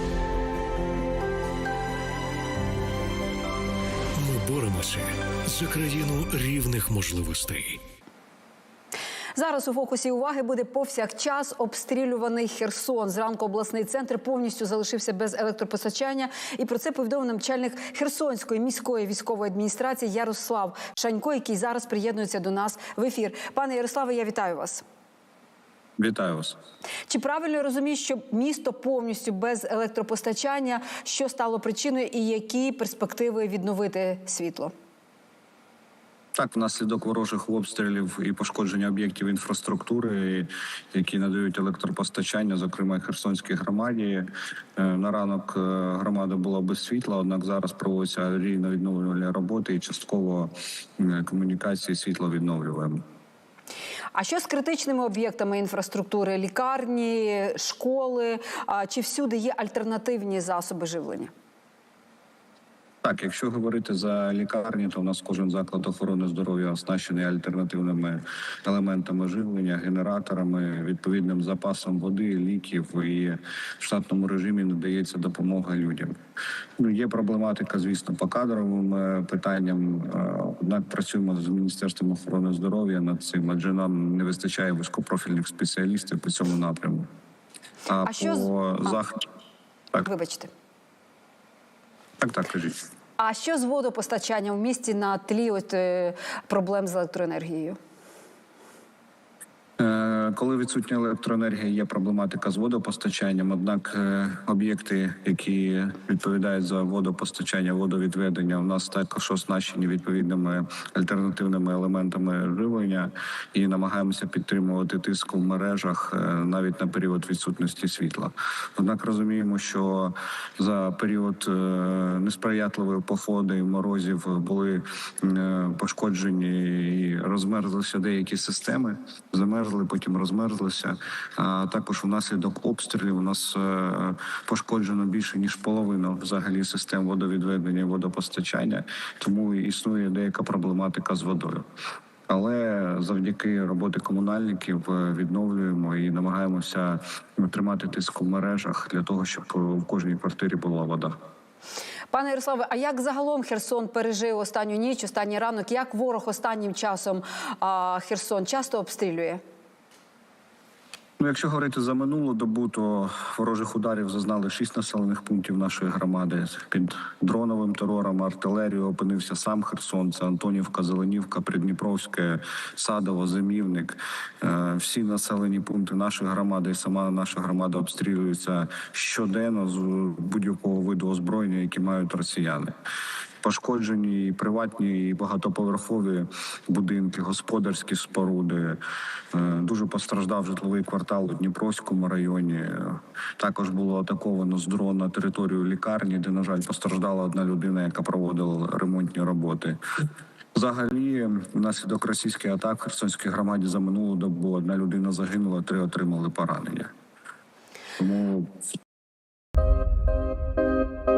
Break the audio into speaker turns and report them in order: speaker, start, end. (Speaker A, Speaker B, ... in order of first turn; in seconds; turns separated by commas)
Speaker A: 4.1-7.8, Speaker B: 9.3-24.8, Speaker C: 26.0-26.6, Speaker B: 27.1-34.7, Speaker C: 36.3-53.0, Speaker B: 54.1-61.3, Speaker C: 63.0-76.1, Speaker C: 76.8-87.1, Speaker C: 87.9-89.2, Speaker B: 88.1-89.0, Speaker B: 90.0-90.5, Speaker C: 92.2-92.8, Speaker B: 93.2-97.8, Speaker C: 99.8-141.7, Speaker C: 142.3-151.1, Speaker B: 152.1-159.4, Speaker C: 161.2-182.7, Speaker C: 183.4-188.8, Speaker C: 189.3-199.8, Speaker C: 200.5-206.9, Speaker C: 208.0-208.5